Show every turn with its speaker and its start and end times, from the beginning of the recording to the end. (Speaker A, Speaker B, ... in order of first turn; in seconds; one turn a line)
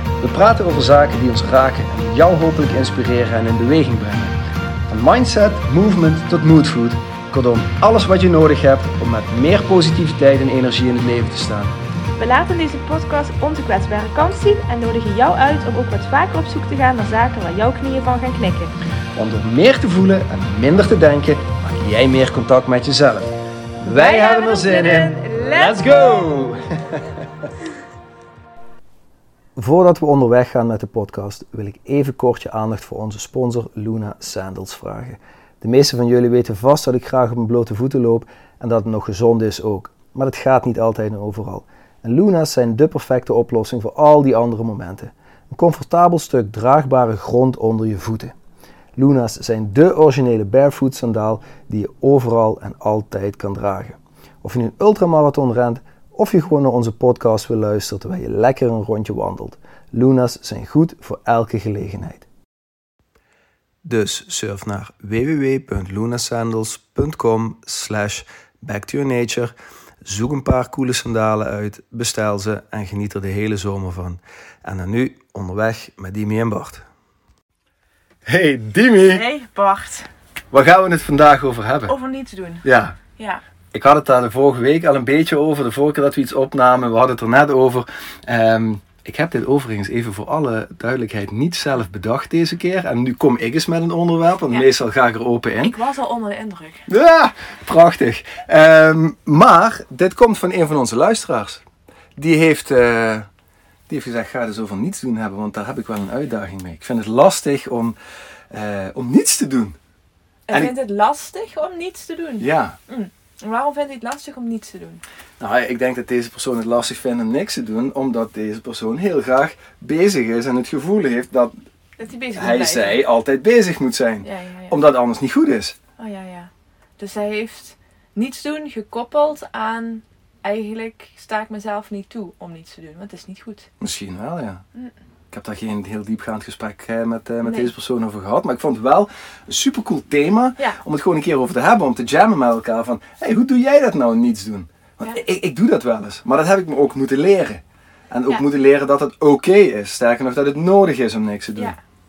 Speaker A: 0.2-11.7
Speaker B: 12.2-18.7
Speaker A: 19.1-27.1
Speaker B: 23.8-26.1
Speaker A: 29.6-48.3
Speaker A: 49.0-62.2
Speaker A: 63.8-69.5
Speaker A: 70.0-76.8
Speaker A: 78.2-79.2
Speaker B: 79.0-80.1
Speaker A: 80.5-81.9
Speaker B: 81.8-82.6
Speaker A: 82.6-83.0
Speaker B: 83.2-83.4
Speaker A: 83.7-95.8
Speaker B: 95.6-96.9
Speaker A: 96.9-101.6
Speaker A: 102.2-103.3
Speaker A: 103.9-108.0
Speaker A: 108.5-109.8
Speaker B: 110.5-115.0
Speaker A: 112.4-112.8
Speaker A: 115.4-121.5
Speaker B: 122.0-123.1
Speaker A: 122.3-125.8
Speaker B: 124.2-124.8
Speaker B: 126.0-133.7
Speaker A: 133.8-134.6
Speaker A: 135.3-151.7
Speaker B: 137.4-137.7